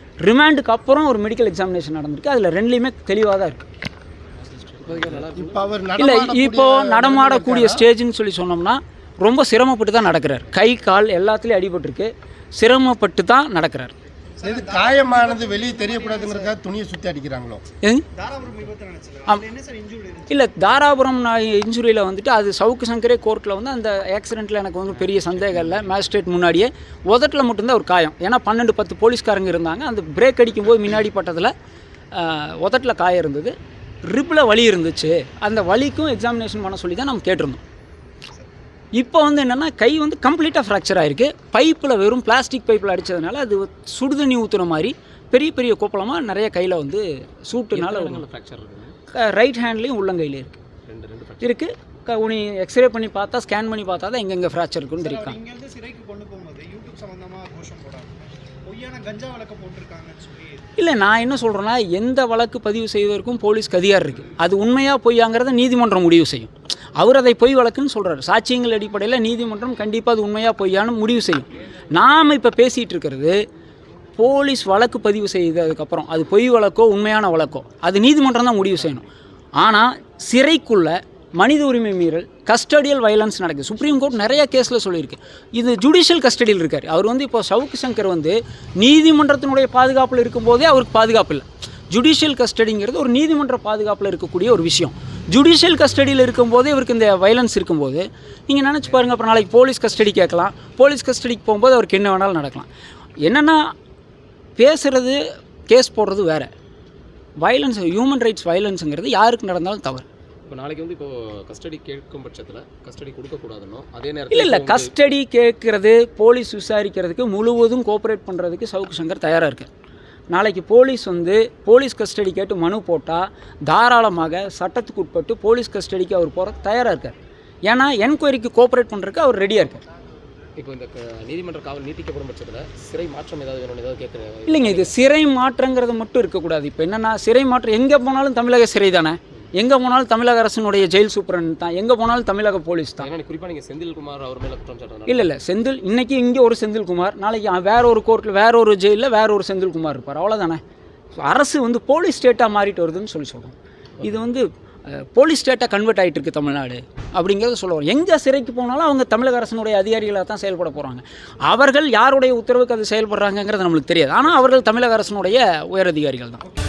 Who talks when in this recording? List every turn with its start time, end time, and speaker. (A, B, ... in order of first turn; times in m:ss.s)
0:00.2-0:03.6 A
0:04.5-0:05.8 B
0:05.2-0:07.9 C
0:06.0-0:13.9 A
0:14.4-0:16.5 D
0:14.4-0:17.6 C
0:18.1-0:20.4 D
0:20.3-0:31.5 A
0:32.1-0:37.6 A
0:39.0-0:48.2 A
0:47.7-0:49.0 B
0:49.1-0:50.6 A
0:50.9-0:51.6 B
0:51.4-0:55.4 A
0:55.0-1:00.7 D
1:00.8-1:13.4 A
1:14.2-1:19.1 A
1:19.6-1:42.7 A
1:43.2-1:43.7 A
1:44.6-1:46.5 A
1:47.4-1:50.0 A
1:50.5-1:54.9 B
1:54.3-1:59.7 A
2:00.3-2:07.2 A
2:07.7-2:09.8 A
2:10.6-2:14.9 B
2:14.5-2:23.1 A
2:23.0-2:25.3 B
2:25.1-2:30.6 A
2:31.2-2:46.4 A